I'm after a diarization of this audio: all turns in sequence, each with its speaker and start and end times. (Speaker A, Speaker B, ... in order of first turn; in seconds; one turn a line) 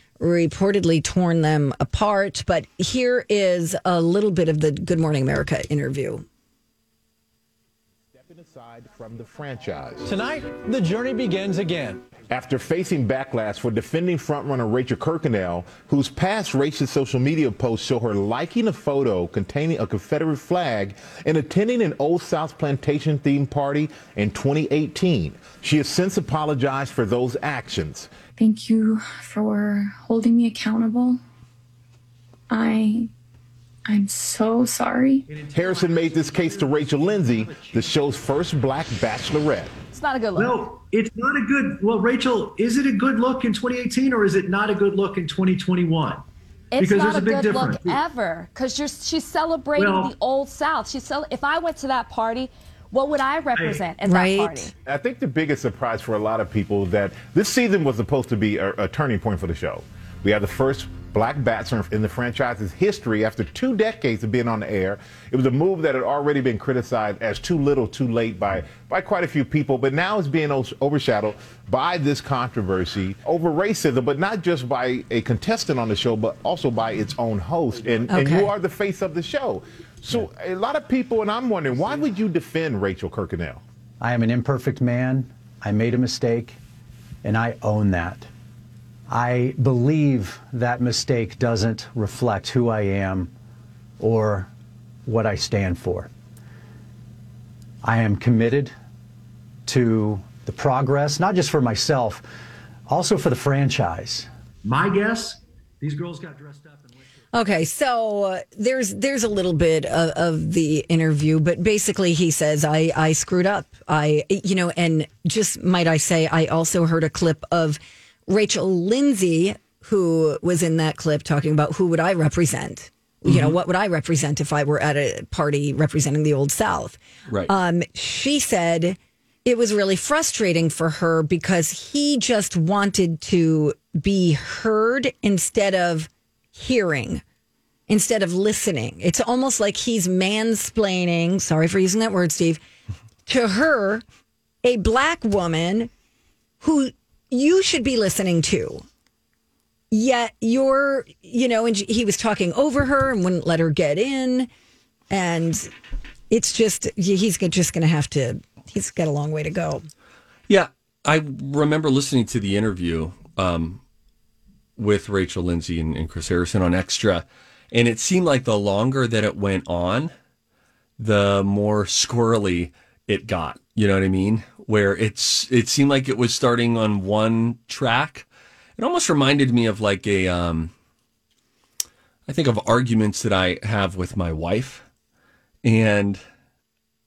Speaker A: 0.2-6.2
Speaker B: 8.1-10.1
Speaker C: 10.0-12.0
Speaker B: 12.3-28.1
Speaker D: 28.4-31.2
Speaker D: 32.5-33.1
Speaker D: 33.9-35.3
Speaker E: 35.3-38.0
Speaker B: 35.5-39.7
Speaker F: 39.9-40.6
Speaker E: 40.3-46.2
Speaker F: 46.7-54.7
Speaker E: 46.8-48.0
Speaker E: 49.8-50.1
Speaker E: 53.5-53.8
Speaker A: 54.0-54.6
Speaker B: 54.9-83.6
Speaker A: 78.1-78.5
Speaker C: 84.0-86.6
Speaker C: 87.2-88.3
Speaker C: 89.1-93.3
Speaker C: 94.0-94.5
Speaker C: 95.0-96.1
Speaker C: 97.8-98.7
Speaker C: 99.7-102.2
Speaker C: 102.9-104.3
Speaker E: 104.6-107.0
Speaker A: 107.3-137.2
Speaker G: 123.2-123.6
Speaker A: 137.9-142.6
Speaker A: 143.2-144.0
Speaker A: 144.6-145.9
Speaker A: 146.6-148.8
Speaker A: 149.9-154.5
Speaker A: 155.1-155.7
Speaker A: 156.3-159.8
Speaker G: 160.5-163.8
Speaker G: 164.8-170.1
Speaker G: 171.0-180.7
Speaker G: 182.3-184.8
Speaker G: 185.6-186.2